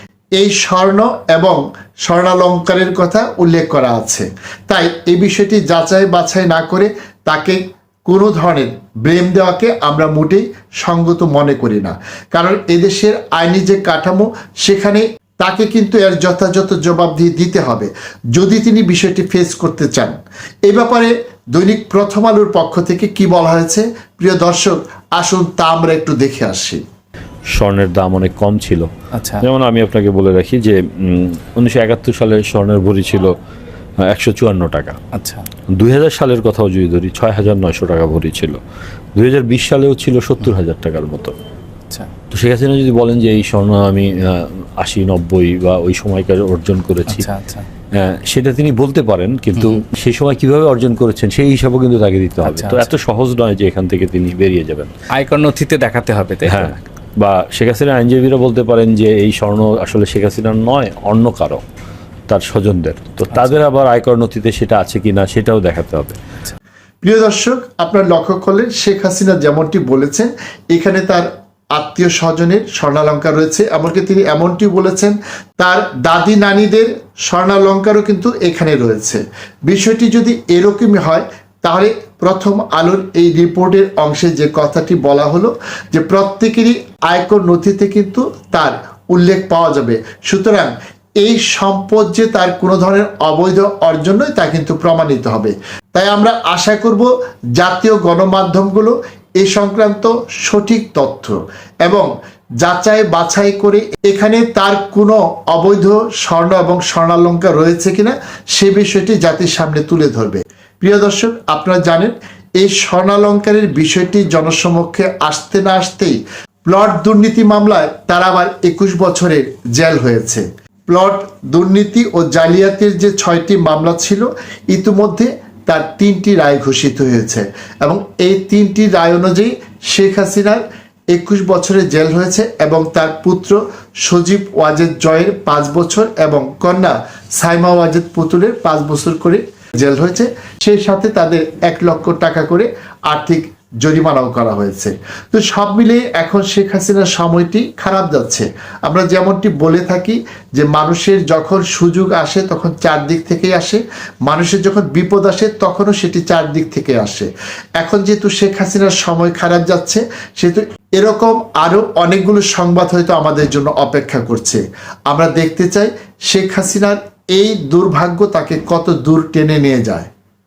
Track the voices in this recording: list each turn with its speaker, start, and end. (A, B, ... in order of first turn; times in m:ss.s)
0:00.4-0:26.8 A
0:27.5-0:28.9 B
0:29.2-0:29.4 C
0:29.4-0:33.4 B
0:34.0-0:35.0 B
0:35.1-0:35.5 C
0:35.7-0:38.6 B
0:39.2-0:41.3 B
0:42.3-0:47.3 B
0:47.1-0:47.7 C
0:48.0-0:54.9 B
0:52.4-0:52.8 C
0:55.1-0:56.8 C
0:56.4-1:01.6 B
1:02.3-1:06.2 B
1:07.0-1:42.1 A
1:42.6-2:50.1 A